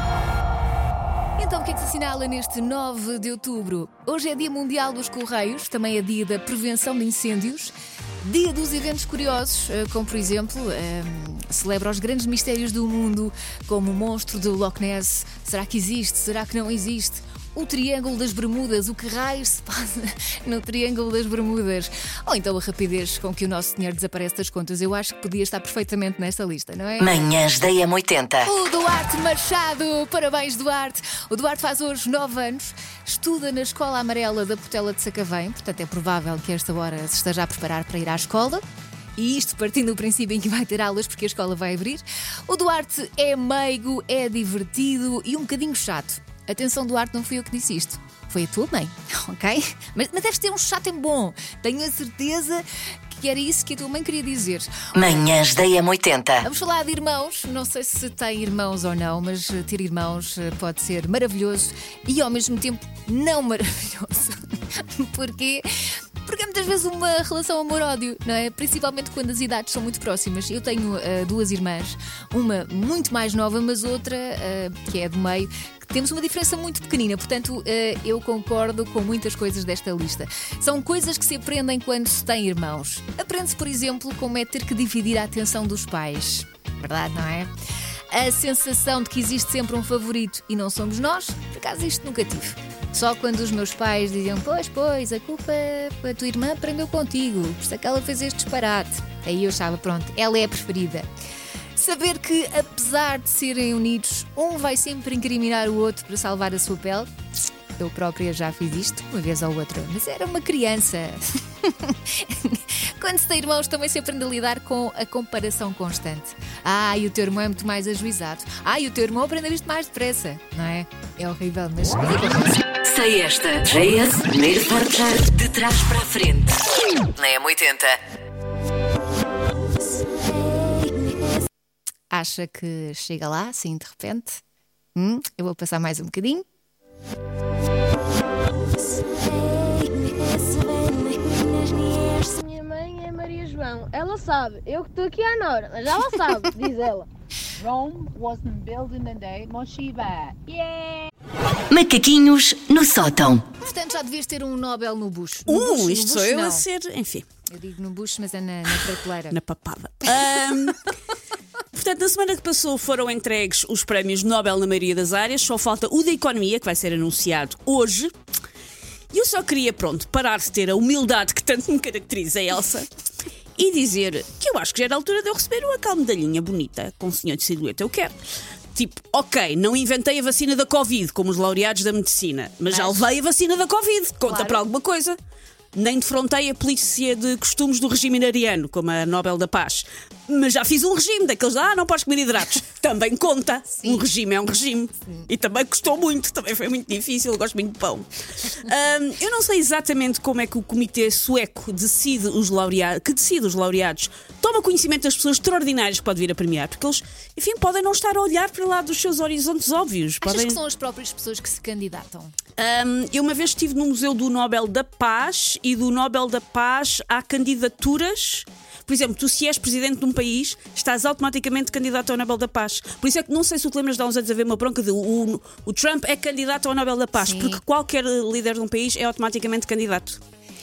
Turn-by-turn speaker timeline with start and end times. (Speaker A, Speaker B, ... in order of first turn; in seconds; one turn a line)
Speaker A: 1.4-27.1
Speaker B: 27.0-28.5
Speaker A: 28.4-38.6
Speaker A: 39.2-54.7
Speaker B: 54.9-56.4
Speaker A: 56.4-65.7
Speaker A: 66.2-87.5
Speaker A: 88.1-101.1
Speaker A: 101.8-107.1
Speaker A: 107.8-122.6
Speaker B: 122.8-126.6
Speaker B: 127.2-128.0
Speaker A: 132.1-134.4
Speaker A: 134.9-136.4
Speaker C: 139.3-147.1
Speaker D: 147.6-150.4
Speaker C: 150.4-151.0
Speaker B: 151.7-153.4
Speaker A: 153.6-156.6
Speaker E: 155.5-157.2
Speaker A: 157.5-159.4
Speaker E: 159.3-160.9
Speaker E: 161.7-168.1
Speaker E: 169.1-172.9
Speaker E: 173.6-178.1
Speaker E: 178.7-185.2
Speaker A: 182.7-183.0
Speaker A: 184.2-184.6
Speaker E: 185.7-210.6
Speaker A: 193.7-194.1
Speaker A: 210.2-212.3
Speaker E: 212.6-230.2
Speaker A: 227.2-227.6